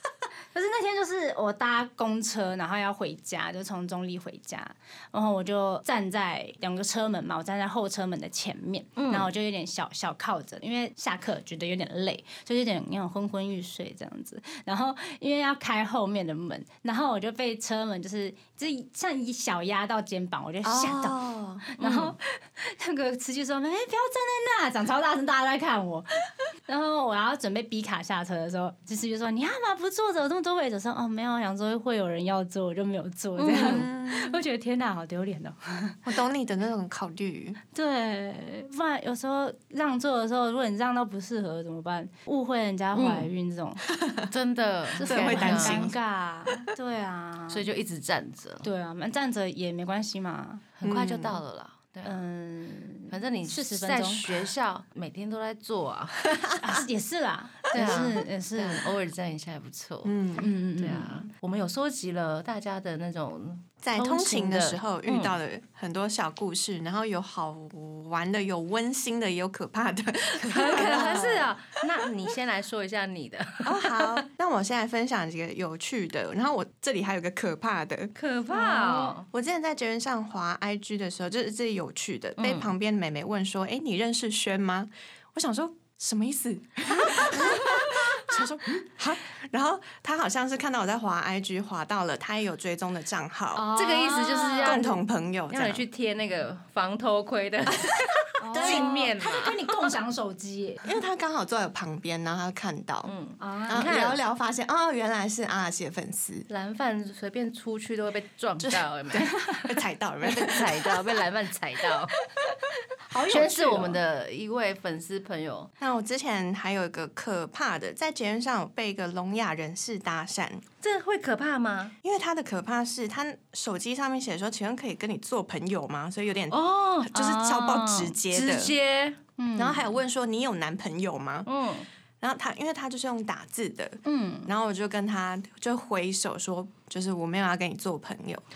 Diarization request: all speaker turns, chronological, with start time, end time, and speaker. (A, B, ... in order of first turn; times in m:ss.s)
0:00.5-0:36.0 A
0:09.0-0:09.3 B
0:20.6-0:21.6 C
0:21.8-0:22.2 B
0:33.4-0:33.8 B
0:33.5-0:34.4 C
0:36.0-0:37.6 C
0:37.7-0:43.8 A
0:42.9-0:43.3 B
0:43.9-0:44.3 C
0:44.3-0:45.9 B
0:45.0-0:47.6 A
0:45.0-0:46.0 C
0:47.5-0:48.6 B
0:48.6-0:50.6 A
0:50.8-0:52.2 B
0:50.8-0:51.4 C
0:52.0-0:54.5 A
0:53.1-0:56.4 B
0:56.3-0:56.8 C
0:56.6-0:58.9 A
0:57.7-1:00.2 B
1:00.0-1:00.5 C
1:00.4-1:01.3 A
1:00.8-1:05.4 B
1:03.8-1:12.1 C
1:10.4-1:14.2 B
1:10.5-1:11.5 A
1:13.6-1:18.1 C
1:18.2-1:19.3 B
1:18.5-1:19.2 A
1:19.3-1:33.7 C
1:22.4-1:22.7 B
1:27.0-1:28.0 A
1:33.5-1:34.9 A
1:33.7-1:35.0 B
1:34.6-1:35.8 C
1:35.5-1:39.7 B
1:38.4-1:40.9 A
1:38.5-1:39.0 C
1:40.8-1:43.1 C
1:43.0-1:44.2 B
1:43.4-1:43.9 A
1:43.7-1:46.5 C
1:46.5-1:52.2 B
1:48.6-1:51.2 C
1:53.1-1:54.0 A
1:53.3-1:55.7 B
1:55.8-2:00.6 C
2:00.8-2:02.0 B
2:02.0-2:08.7 C
2:06.5-2:09.2 B
2:07.2-2:07.8 A
2:09.4-2:09.9 A
2:09.6-2:11.5 C
2:11.5-2:11.9 B
2:12.2-2:18.4 C
2:14.0-2:14.5 A